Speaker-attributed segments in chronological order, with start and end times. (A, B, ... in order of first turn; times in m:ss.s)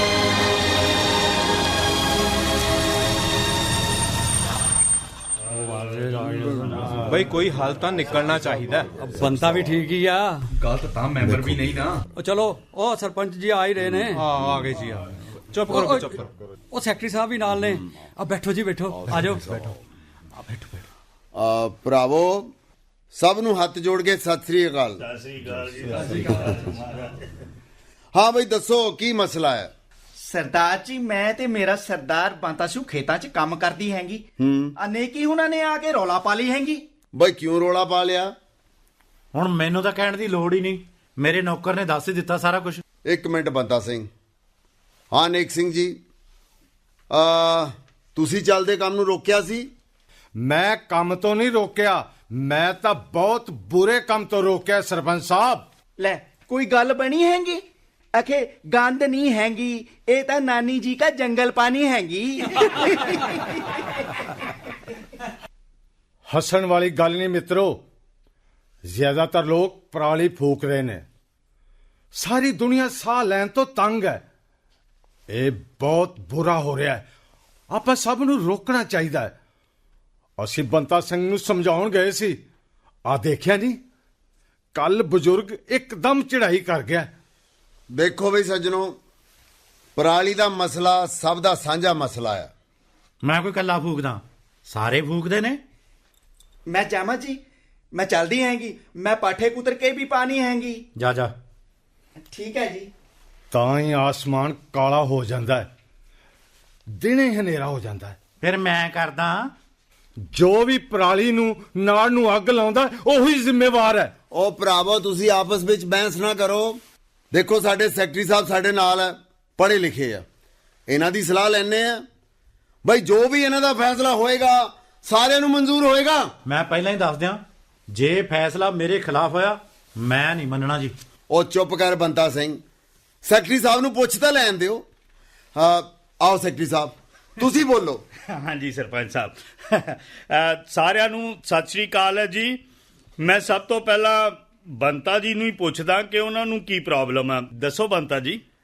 0:05.5-0:09.3 A
0:09.1-0:10.4 B
0:10.6-0:12.0 A
0:12.1-0:14.2 B
0:14.2-0:16.3 A
0:15.7-0:16.2 B
0:16.7-0:19.7 B
0:19.0-0:19.6 A
0:21.3-0:22.5 C
0:23.1-0:25.0 C
0:25.0-0:27.4 D
0:28.1-0:29.7 C
0:30.2-0:34.2 E
0:34.4-0:34.7 C
0:34.8-0:36.8 E
0:37.1-0:38.3 C
0:39.3-0:42.8 F
0:43.1-0:44.1 C
0:45.1-0:46.0 C
0:47.1-0:49.7 C
0:50.4-0:55.6 G
0:56.0-0:57.6 E
0:58.1-1:03.7 E
1:06.3-1:07.8 G
1:08.8-1:11.0 G
1:12.1-1:14.2 G
1:15.3-1:17.0 G
1:17.7-1:19.3 G
1:20.4-1:22.4 G
1:23.1-1:23.8 G
1:24.7-1:27.1 G
1:27.9-1:29.0 C
1:30.0-1:32.5 C
1:33.2-1:35.6 F
1:36.7-1:37.4 E
1:37.9-1:40.8 E
1:41.0-1:41.3 F
1:42.2-1:42.9 E
1:43.5-1:45.7 G
1:47.0-1:48.2 G
1:48.4-1:49.5 F
1:50.3-1:54.1 G
1:54.3-1:56.8 C
1:57.3-2:00.2 C
2:00.9-2:02.0 C
2:02.8-2:06.3 C
2:06.4-2:07.4 F
2:07.9-2:10.9 F
2:11.3-2:12.6 C
2:13.2-2:14.8 C
2:15.6-2:18.0 C
2:18.3-2:22.6 D
2:23.2-2:28.4 D